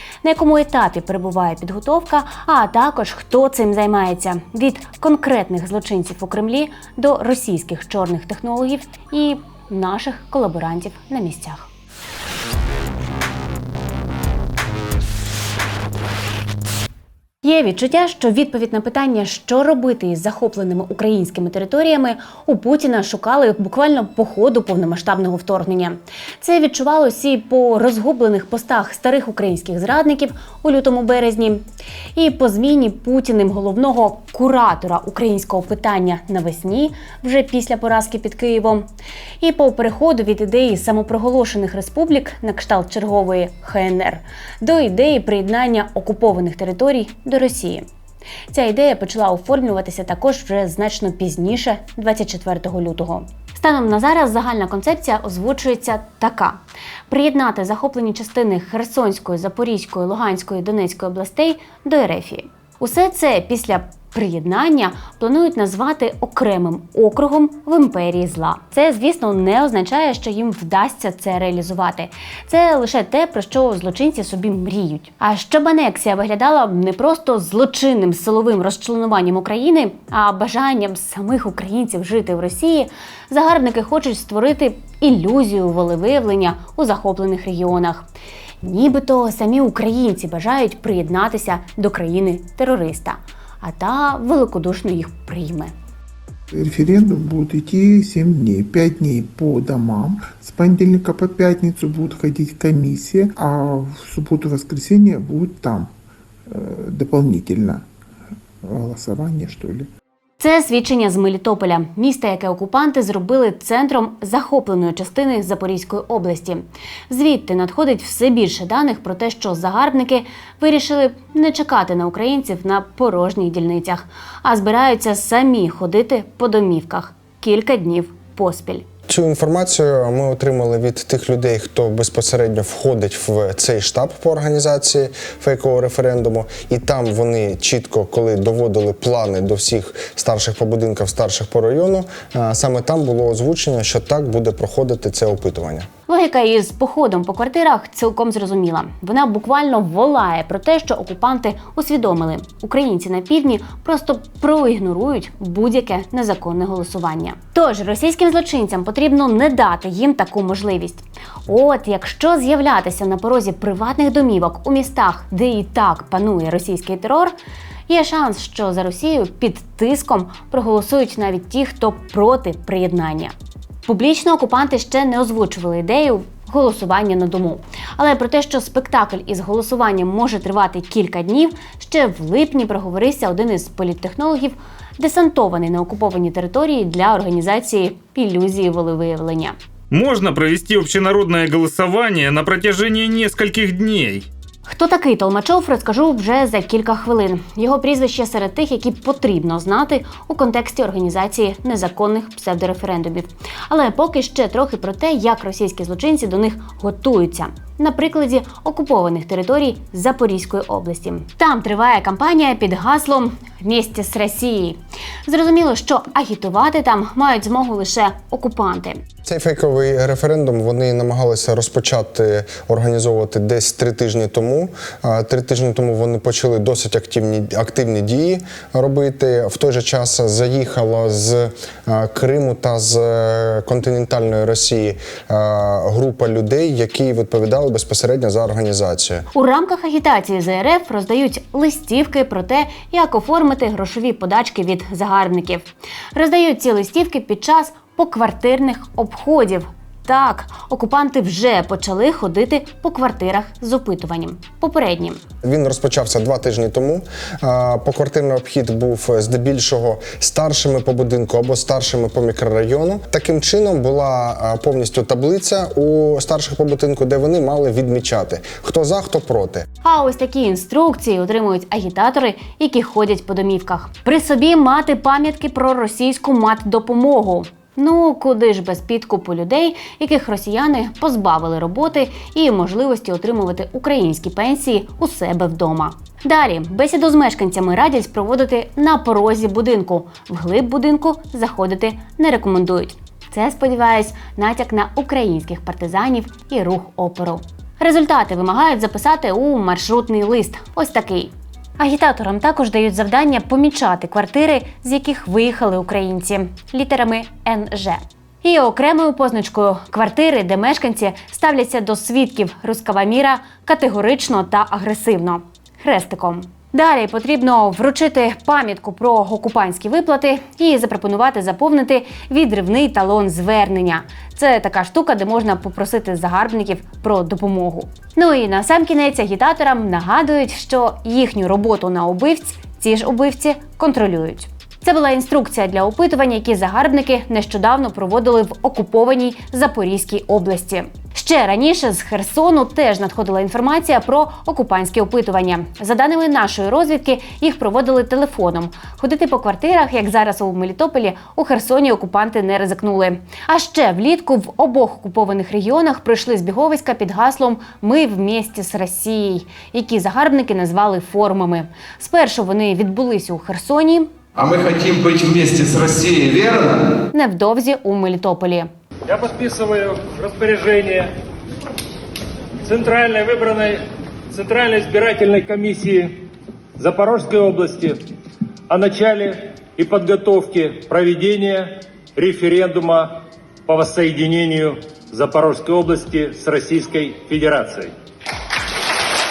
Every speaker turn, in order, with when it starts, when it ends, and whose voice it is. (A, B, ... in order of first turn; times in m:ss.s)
0:00.2-0:11.7 A
0:17.4-0:31.6 A
0:32.2-0:38.9 A
0:39.4-0:47.8 A
0:48.5-1:28.1 A
1:28.6-1:35.7 A
1:36.5-1:45.9 B
1:46.5-1:47.8 B
1:48.6-1:49.9 B
1:50.4-2:08.8 A
2:09.1-2:25.9 C
2:26.1-2:47.3 A
2:47.9-2:53.3 A
2:53.8-3:09.6 A
3:09.9-3:14.3 D
3:14.7-3:39.0 A
3:39.2-3:59.3 C
3:59.3-4:15.2 A
4:15.4-4:29.7 C
4:29.8-6:04.1 A
6:04.4-6:06.8 E
6:07.1-6:08.7 A
6:09.1-6:11.1 F
6:12.6-6:18.0 F
6:18.7-6:27.9 F